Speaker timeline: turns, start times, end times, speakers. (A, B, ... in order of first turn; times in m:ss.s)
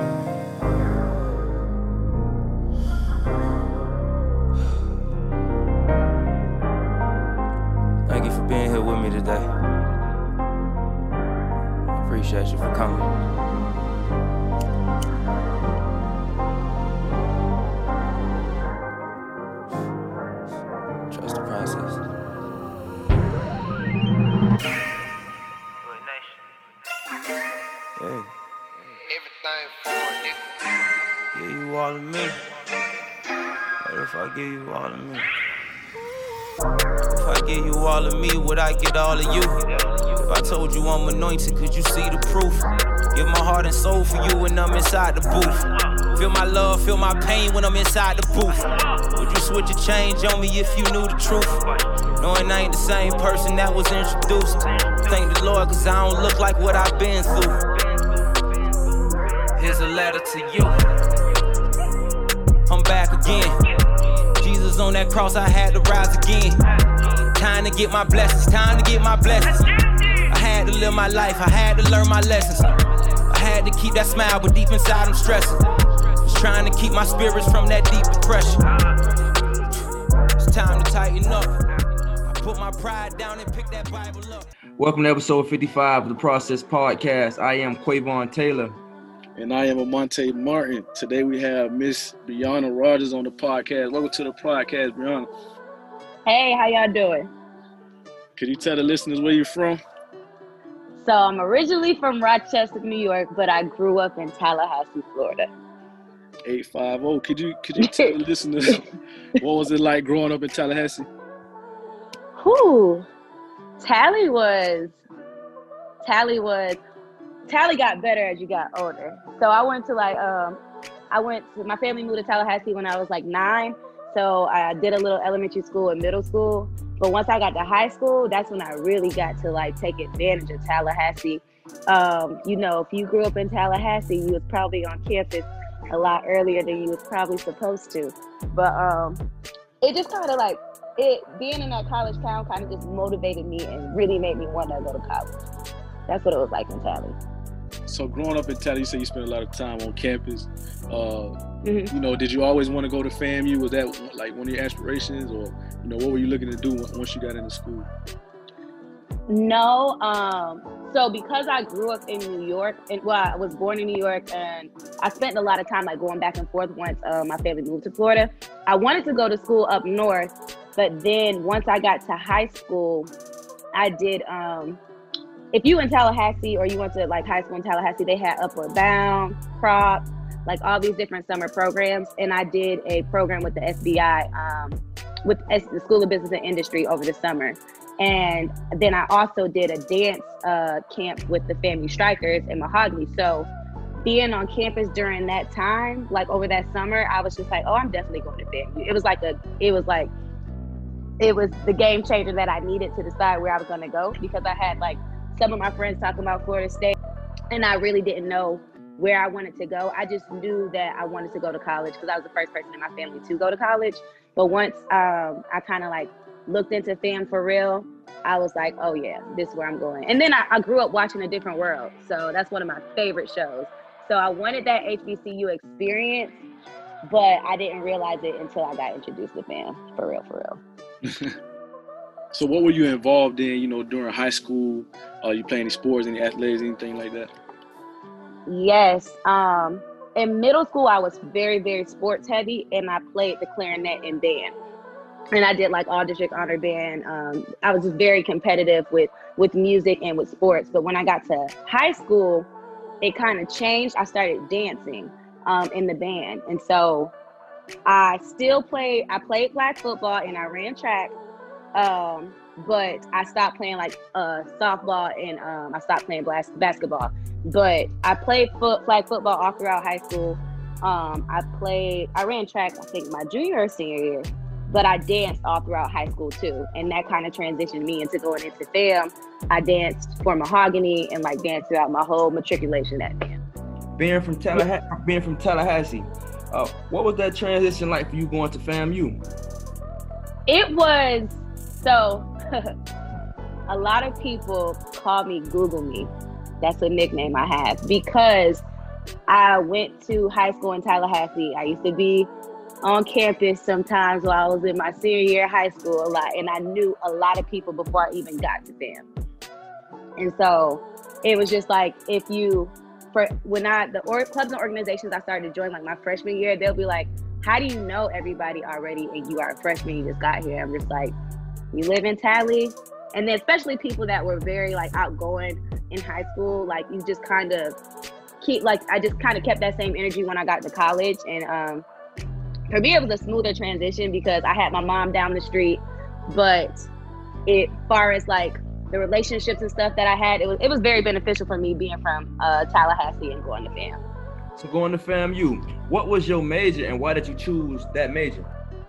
0:08.0-0:09.5 A
0:11.9-0:13.1 A
0:21.1-0:22.0 A
0:28.0-0:28.3 A
0:31.3-0:32.4 A
0:33.8-0:35.3 A
0:37.1-0:39.6 A
0:40.2-0:51.6 A
0:52.2-0:57.6 A
0:59.5-1:00.9 A
1:02.7-1:03.6 A
1:04.4-1:06.6 A
1:07.3-1:09.8 A
1:10.3-1:12.7 A
1:13.3-1:15.6 A
1:16.2-1:18.6 A
1:20.4-1:21.5 A
1:22.3-1:24.5 A
1:24.8-1:28.8 B
1:29.4-1:35.3 C
1:36.2-1:37.3 D
1:38.4-1:39.8 C
1:41.0-1:45.5 D
1:46.4-1:48.9 C
1:47.8-1:48.1 D
1:49.4-1:51.1 C
1:52.4-1:53.0 D
1:53.8-1:55.0 D
1:56.0-1:56.8 D
1:57.5-2:00.6 D
2:01.1-2:19.2 D
2:19.8-2:25.3 D
2:26.1-2:27.2 D
2:27.9-2:31.3 C
2:31.6-2:31.9 D
2:31.9-2:37.9 C
2:39.3-2:53.1 D
2:53.7-2:54.8 D
2:55.5-3:13.5 D
3:14.0-3:20.1 D
3:21.2-3:27.0 D
3:27.5-3:46.4 D
3:47.0-3:50.6 D
3:51.0-3:51.3 C
3:52.3-3:57.3 C
3:58.4-4:04.5 D
4:05.3-4:12.5 D
4:13.0-4:17.1 D
4:17.8-4:21.1 D
4:21.7-4:43.3 D
4:44.0-4:49.2 B
4:50.5-4:52.7 D
4:53.7-4:58.6 D
4:59.3-5:02.3 D
5:02.8-5:09.0 D
5:10.2-5:21.1 D
5:21.7-5:27.8 D
5:28.4-5:31.8 D
5:32.7-5:36.9 D
5:37.5-5:44.0 D
5:44.6-5:48.5 B